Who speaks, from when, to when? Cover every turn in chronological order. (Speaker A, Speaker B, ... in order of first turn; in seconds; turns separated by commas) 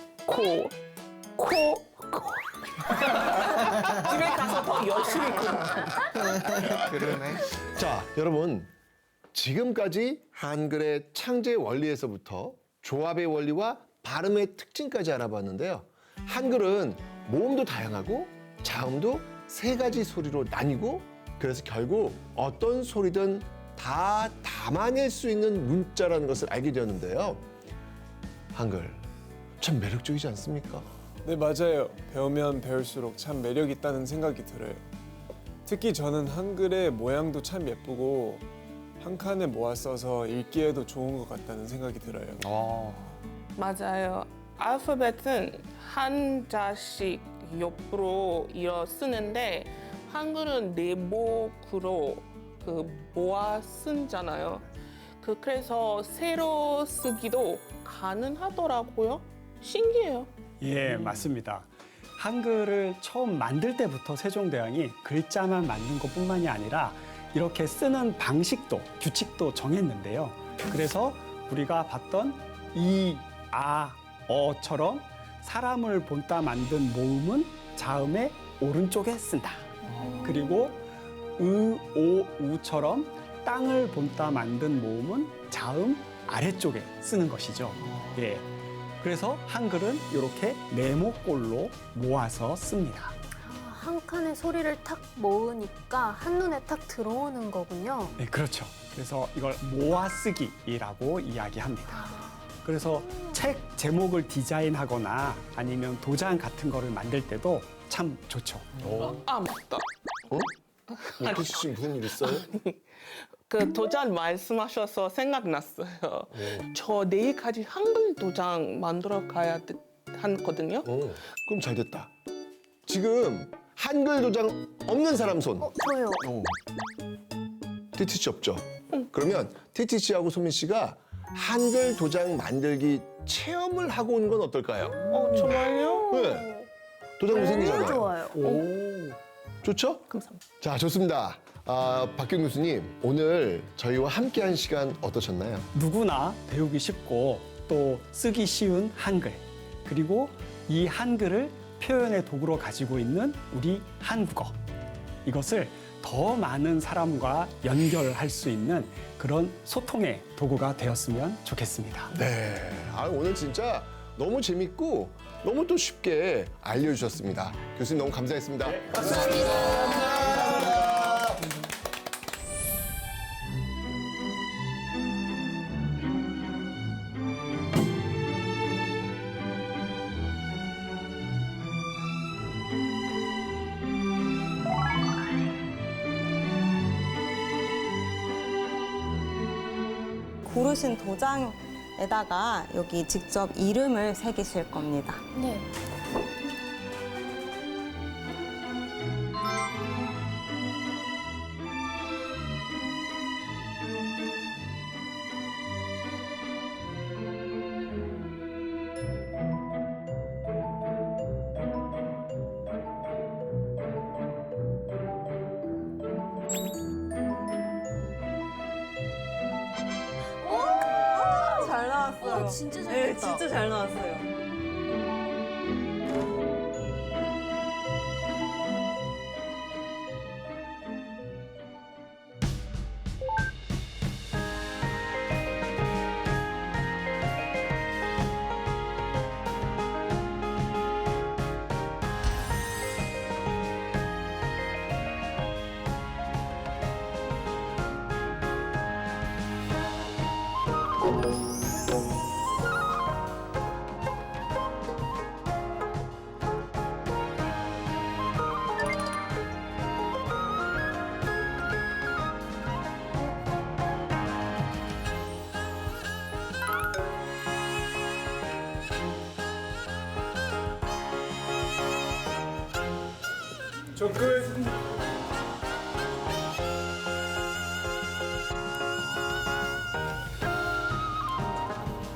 Speaker A: 0.2-0.7, Speaker A: 1.4-6.2, Speaker B: 6.0-8.7, Speaker C: 6.4-7.5, Speaker B: 9.3-27.4, Speaker B: 28.5-29.1, Speaker B: 29.6-30.9, Speaker D: 31.2-34.9, Speaker D: 35.6-38.4, Speaker D: 39.0-42.4, Speaker C: 42.4-43.2, Speaker A: 43.5-54.6, Speaker A: 55.2-60.3, Speaker E: 60.6-80.8, Speaker E: 81.4-88.5, Speaker E: 89.0-93.1, Speaker F: 93.4-98.1, Speaker E: 98.2-102.1, Speaker F: 102.0-102.3, Speaker E: 102.6-108.7, Speaker B: 108.8-109.2, Speaker A: 109.0-109.8, Speaker A: 111.0-120.9, Speaker B: 111.2-112.5, Speaker B: 116.3-116.6, Speaker B: 120.8-122.1, Speaker B: 122.8-126.5, Speaker F: 125.6-126.3, Speaker B: 127.9-135.4, Speaker A: 135.1-136.3, Speaker B: 136.1-136.5, Speaker B: 137.2-138.3, Speaker F: 137.3-138.5, Speaker A: 138.4-138.7, Speaker E: 138.7-139.1, Speaker B: 139.6-140.0, Speaker A: 140.1-140.4, Speaker B: 140.6-145.7, Speaker E: 145.7-154.6, Speaker E: 155.2-162.1, Speaker B: 162.1-171.4, Speaker E: 168.7-170.5, Speaker F: 169.1-170.2, Speaker G: 190.4-195.2, Speaker F: 195.3-195.6, Speaker F: 220.4-223.5, Speaker G: 221.0-224.3, Speaker D: 273.9-274.6